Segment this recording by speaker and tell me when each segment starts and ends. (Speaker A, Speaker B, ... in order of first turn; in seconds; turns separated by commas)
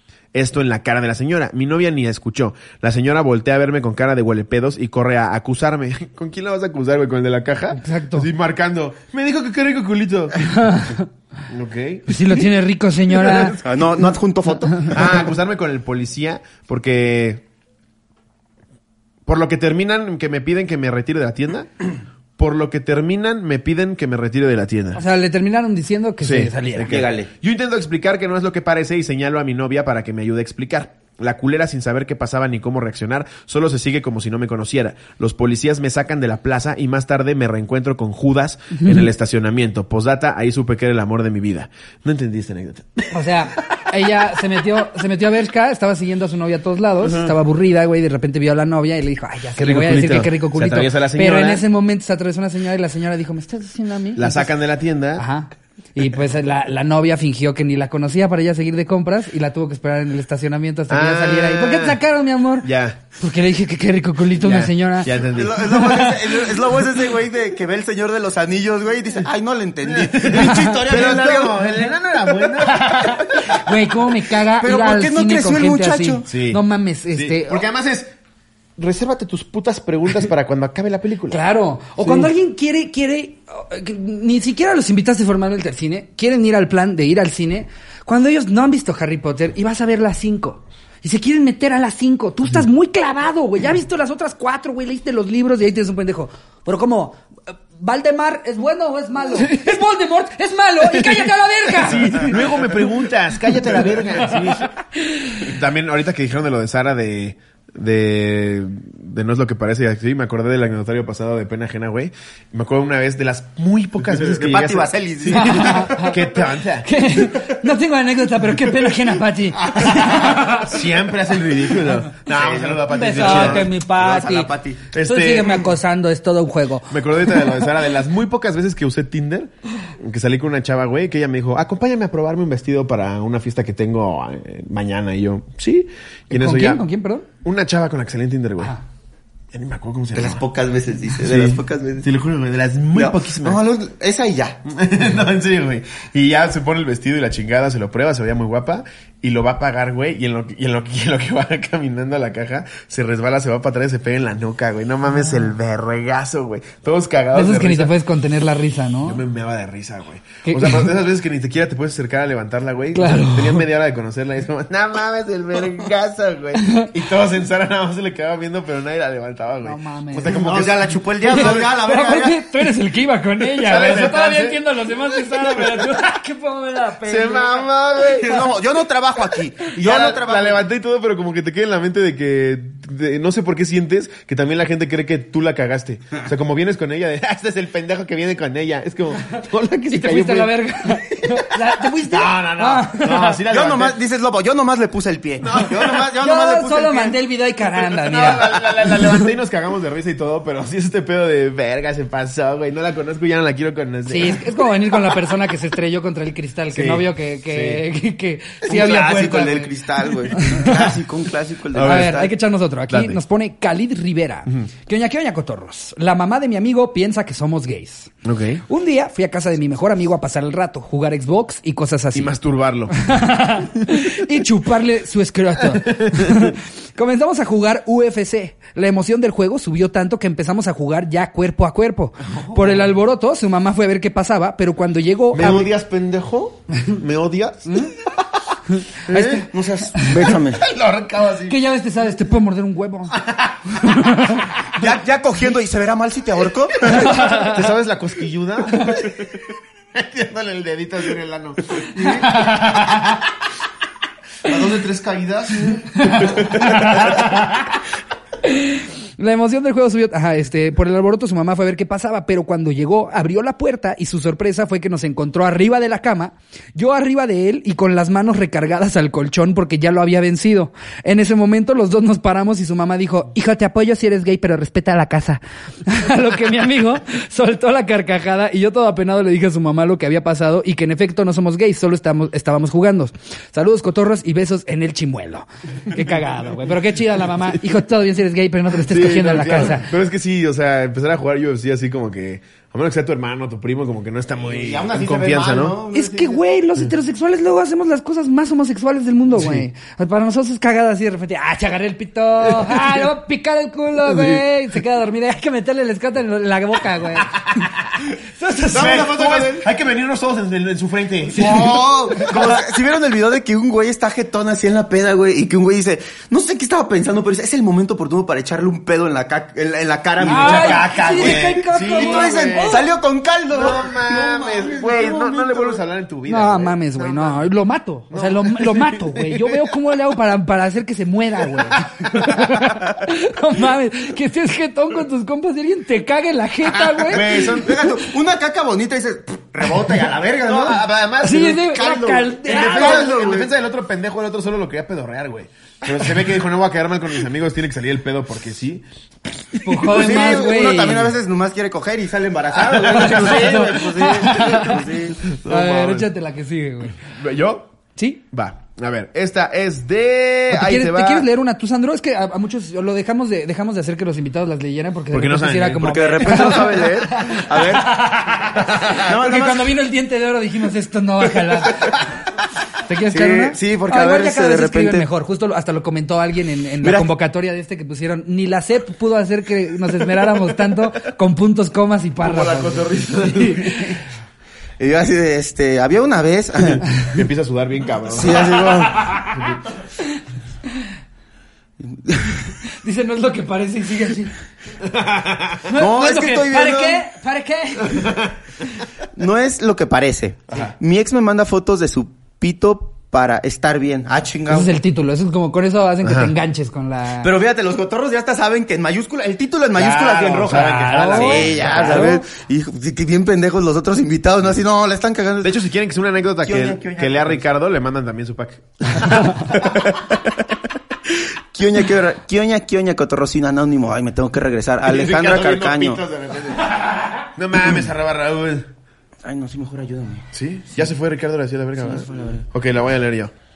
Speaker A: 0.3-10.9, Speaker B: 7.8-8.3, Speaker B: 10.5-11.0, Speaker A: 11.5-12.4, Speaker B: 12.1-13.6, Speaker A: 13.1-13.6, Speaker C: 13.6-15.2, Speaker A: 14.9-17.4, Speaker A: 19.3-21.7, Speaker A: 22.4-25.0, Speaker B: 24.9-26.9, Speaker A: 26.2-43.8, Speaker C: 26.9-27.3, Speaker B: 38.8-39.0, Speaker B: 43.1-54.5, Speaker A: 47.0-47.3, Speaker A: 49.6-51.6, Speaker A: 54.2-55.2, Speaker B: 55.2-66.1, Speaker A: 60.9-62.0, Speaker A: 62.6-63.0, Speaker A: 64.4-66.2, Speaker C: 65.2-71.9, Speaker A: 69.8-73.5, Speaker B: 70.3-70.8, Speaker B: 72.6-77.6, Speaker C: 74.6-76.2, Speaker A: 76.3-76.6, Speaker A: 77.1-78.1, Speaker A: 78.8-81.4, Speaker B: 81.3-97.2, Speaker A: 82.0-82.3, Speaker B: 97.7-102.4, Speaker A: 100.8-104.7, Speaker B: 105.0-105.5, Speaker A: 105.4-117.5, Speaker C: 114.1-116.0, Speaker B: 115.3-116.2, Speaker B: 116.8-120.7, Speaker C: 119.8-120.4, Speaker A: 119.8-123.7, Speaker C: 122.3-124.8, Speaker B: 122.9-127.6, Speaker A: 124.9-125.7, Speaker A: 126.9-136.8, Speaker B: 136.3-137.3, Speaker A: 137.4-138.7, Speaker A: 139.5-140.4, Speaker C: 140.1-142.1, Speaker A: 141.2-143.6, Speaker C: 142.9-144.6, Speaker A: 144.7-157.9, Speaker B: 157.3-159.2, Speaker A: 159.1-171.7, Speaker B: 160.4-160.9, Speaker B: 162.9-163.7, Speaker B: 166.6-166.9, Speaker B: 169.6-170.4, Speaker C: 170.3-172.4, Speaker B: 171.2-177.7, Speaker A: 173.6-174.6, Speaker A: 175.3-175.8, Speaker A: 177.0-178.5, Speaker C: 178.0-180.7, Speaker A: 179.7-194.0, Speaker B: 189.9-193.4, Speaker C: 193.5-197.2, Speaker A: 195.4-196.2, Speaker B: 196.2-199.2, Speaker A: 197.9-205.3, Speaker B: 204.1-210.9, Speaker A: 206.7-207.8, Speaker C: 208.7-212.3, Speaker A: 211.7-212.3, Speaker B: 211.8-218.1, Speaker A: 212.9-213.2, Speaker A: 218.2-218.6, Speaker B: 218.7-222.3, Speaker A: 222.1-223.0, Speaker B: 222.9-235.7, Speaker A: 225.7-226.5, Speaker A: 232.2-232.9, Speaker A: 235.3-238.2, Speaker B: 239.1-240.1, Speaker A: 239.1-239.4, Speaker C: 239.3-240.6, Speaker A: 240.2-241.6, Speaker B: 241.5-244.6, Speaker A: 243.2-243.8, Speaker C: 244.8-247.2, Speaker A: 246.9-253.3, Speaker B: 247.0-247.6, Speaker C: 252.0-252.3, Speaker B: 252.0-252.8, Speaker A: 254.4-257.4, Speaker B: 256.0-257.6, Speaker B: 258.4-289.9, Speaker A: 288.8-295.8, Speaker C: 294.5-296.4, Speaker B: 295.9-307.4, Speaker A: 299.3-299.6, Speaker A: 302.4-303.0, Speaker A: 304.1-304.4, Speaker A: 307.2-308.0, Speaker B: 308.4-309.1, Speaker C: 308.7-309.7, Speaker A: 308.7-312.6, Speaker C: 311.3-325.8, Speaker B: 311.4-312.3, Speaker A: 320.2-322.9, Speaker B: 320.2-322.9, Speaker A: 323.5-327.4, Speaker B: 326.3-337.7, Speaker A: 328.1-329.7, Speaker A: 331.6-332.5, Speaker A: 336.8-337.9, Speaker C: 337.1-340.8, Speaker A: 340.4-348.9, Speaker B: 341.2-343.1, Speaker C: 342.0-343.5, Speaker A: 349.5-350.3, Speaker B: 349.6-351.1, Speaker C: 349.9-355.2, Speaker A: 352.7-353.7, Speaker B: 352.9-354.9, Speaker A: 354.4-354.6, Speaker A: 355.2-356.1, Speaker B: 355.4-357.0, Speaker A: 357.1-357.7, Speaker B: 358.0-358.2, Speaker A: 358.3-361.3, Speaker B: 360.5-372.0, Speaker A: 365.1-366.6, Speaker C: 365.8-368.0, Speaker A: 368.6-369.0, Speaker C: 368.9-369.7, Speaker B: 372.8-384.0, Speaker C: 373.1-375.1, Speaker C: 376.8-377.1, Speaker A: 382.3-383.8, Speaker C: 384.8-386.9, Speaker A: 387.0-389.6, Speaker C: 388.1-389.1, Speaker B: 388.9-389.4, Speaker C: 391.8-392.5, Speaker B: 392.6-394.4, Speaker A: 394.8-395.7, Speaker B: 395.7-398.2, Speaker C: 395.7-397.0, Speaker A: 397.9-398.4, Speaker C: 399.1-404.7, Speaker B: 404.5-407.3, Speaker A: 406.0-406.3, Speaker C: 407.2-415.6, Speaker A: 409.8-412.2, Speaker B: 410.5-412.2, Speaker A: 415.4-420.2, Speaker C: 416.4-417.4, Speaker C: 421.5-426.0, Speaker A: 424.8-428.7, Speaker C: 429.2-430.3, Speaker A: 430.3-433.3, Speaker C: 431.8-432.4